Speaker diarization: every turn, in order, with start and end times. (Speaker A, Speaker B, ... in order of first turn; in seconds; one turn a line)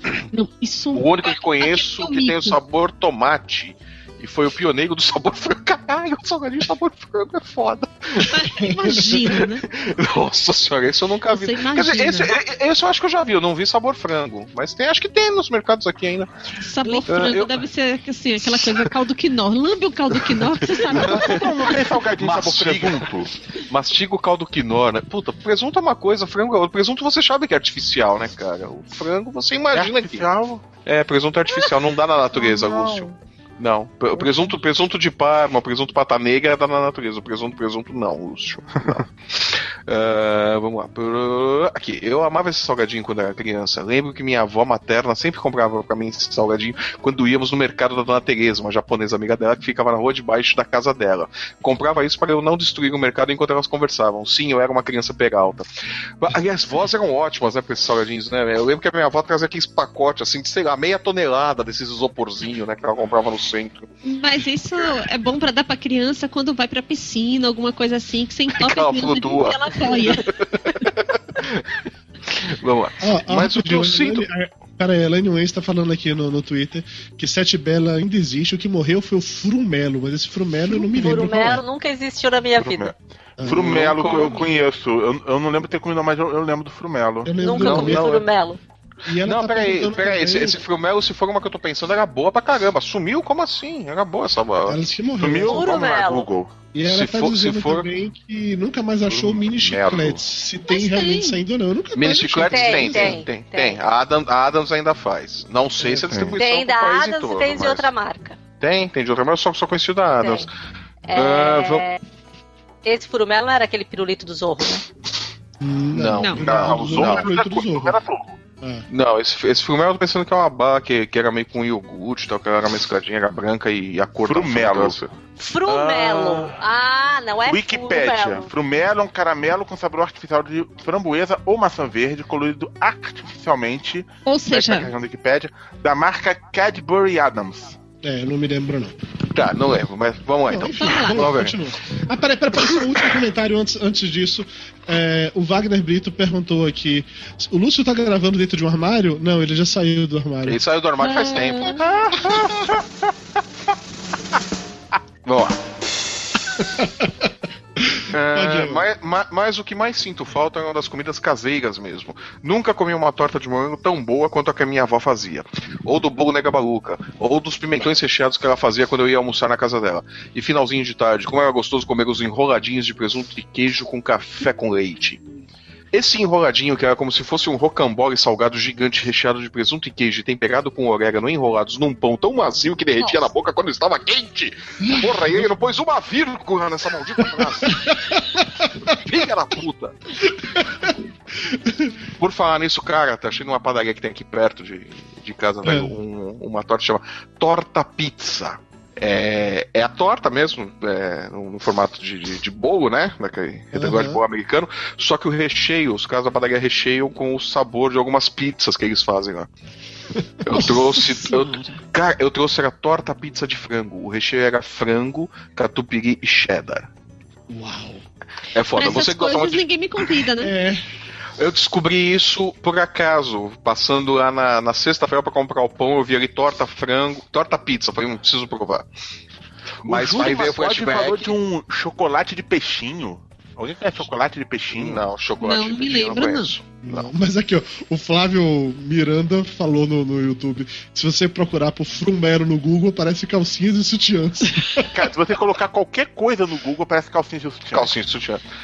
Speaker A: 0.3-2.6
Speaker B: 0.9-16.3
Speaker A: 8.2-9.6
Speaker A: 11.3-12.3
Speaker A: 16.6-21.4
Speaker B: 16.8-17.6
Speaker B: 18.4-18.9
Speaker B: 20.4-30.3
Speaker C: 20.9-23.3
Speaker C: 29.7-30.6
Speaker B: 30.8-55.7
Speaker C: 32.4-33.1
Speaker C: 34.2-34.5
Speaker B: 56.2-63.9
Speaker A: 64.0-70.9
Speaker B: 68.6-74.3
Speaker D: 73.0-81.6
Speaker E: 80.9-82.9
Speaker C: 82.6-87.3
Speaker D: 83.4-83.9
Speaker B: 83.4-84.5
Speaker D: 87.2-88.2
Speaker E: 87.4-88.6
Speaker B: 87.6-88.2
Speaker D: 89.0-90.6
Speaker B: 89.2-94.8
Speaker D: 94.7-95.8
Speaker C: 95.2-96.5
Speaker E: 95.5-96.3
Speaker D: 96.7-103.2
Speaker B: 96.9-97.9
Speaker C: 99.1-100.1
Speaker B: 99.2-100.2
Speaker A: 100.7-101.4
Speaker B: 101.9-107.9
Speaker E: 102.5-103.8
Speaker D: 105.8-106.3
Speaker C: 105.8-106.4
Speaker E: 106.4-108.4
Speaker B: 108.6-110.5
Speaker E: 110.2-110.5
Speaker E: 111.1-112.0
Speaker B: 111.1-111.8
Speaker E: 112.8-114.8
Speaker D: 115.6-118.0
Speaker B: 115.9-117.3
Speaker A: 116.2-116.5
Speaker C: 116.4-118.3
Speaker D: 118.6-118.9
Speaker B: 118.9-125.1
Speaker C: 124.2-125.0
Speaker E: 125.4-128.5
Speaker B: 125.7-126.5
Speaker C: 127.5-137.8
Speaker A: 134.2-134.9
Speaker D: 138.0-139.0
Speaker B: 139.3-141.6
Speaker D: 140.5-150.6
Speaker A: 140.8-141.2
Speaker B: 150.4-151.9
Speaker A: 151.0-151.8
Speaker C: 151.8-152.8
Speaker D: 152.2-152.5
Speaker B: 155.2-155.6
Speaker D: 156.6-158.8
Speaker B: 158.1-175.2
Speaker B: 175.9-187.8
Speaker A: 183.0-183.2
Speaker D: 184.8-185.5
Speaker D: 187.7-188.9
Speaker B: 188.9-190.0
Speaker D: 190.3-191.9
Speaker B: 192.2-209.5
Speaker D: 195.6-195.9
Speaker D: 203.7-204.2
Speaker B: 210.4-216.9
Speaker A: 210.5-211.8
Speaker D: 217.5-218.0
Speaker B: 218.5-219.6
Speaker A: 218.7-220.5
Speaker D: 220.4-220.8
Speaker B: 221.4-228.8
Speaker B: 229.8-231.3
Speaker C: 229.8-235.0
Speaker B: 234.7-237.1
Speaker A: 235.4-236.5
Speaker D: 236.8-244.9
Speaker C: 244.9-247.9
Speaker B: 247.7-248.4